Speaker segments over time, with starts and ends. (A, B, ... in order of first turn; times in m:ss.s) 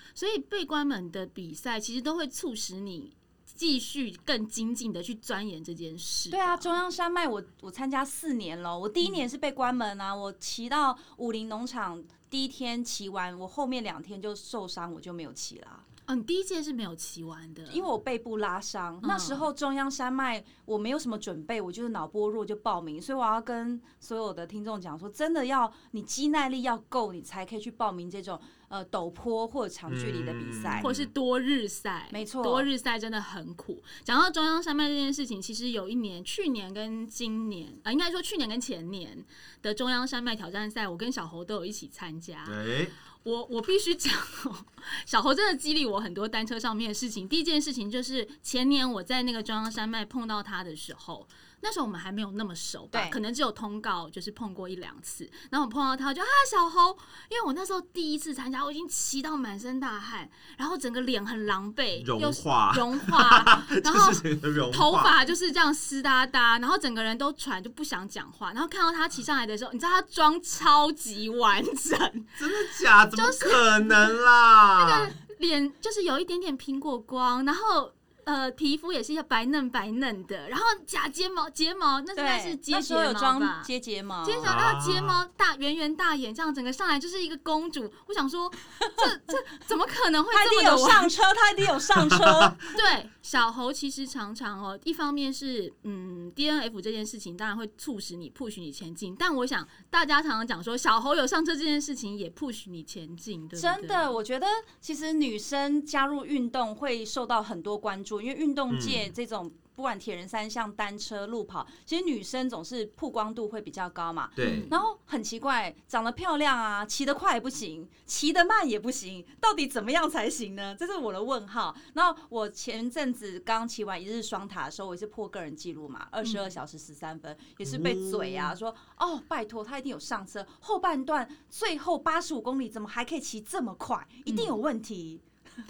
0:00.2-0:06.8 A
0:06.3-0:15.8 B
0:16.1-0:17.8 A
0:17.7-0:30.9 B
0:19.0-0:19.5 A
0:29.9-0:31.1 C
0:30.8-0:42.6 A
0:32.1-0:32.7 B
0:42.4-0:43.0 C
0:43.2-1:12.4 A
0:52.9-0:53.2 B
1:02.0-1:05.1 C
1:12.4-1:15.1 C
1:13.1-1:14.1 A
1:14.8-1:23.7 A
1:22.2-1:24.6 B
1:24.2-1:31.2 A
1:24.4-1:25.2 C
1:30.3-1:32.8 B
1:32.7-1:44.1 A
1:43.6-2:15.2 B
1:48.7-1:49.1 C
1:54.4-1:54.7 C
1:54.4-1:54.8 A
2:06.2-2:06.5 A
2:07.6-2:08.5 C
2:14.3-2:14.5 A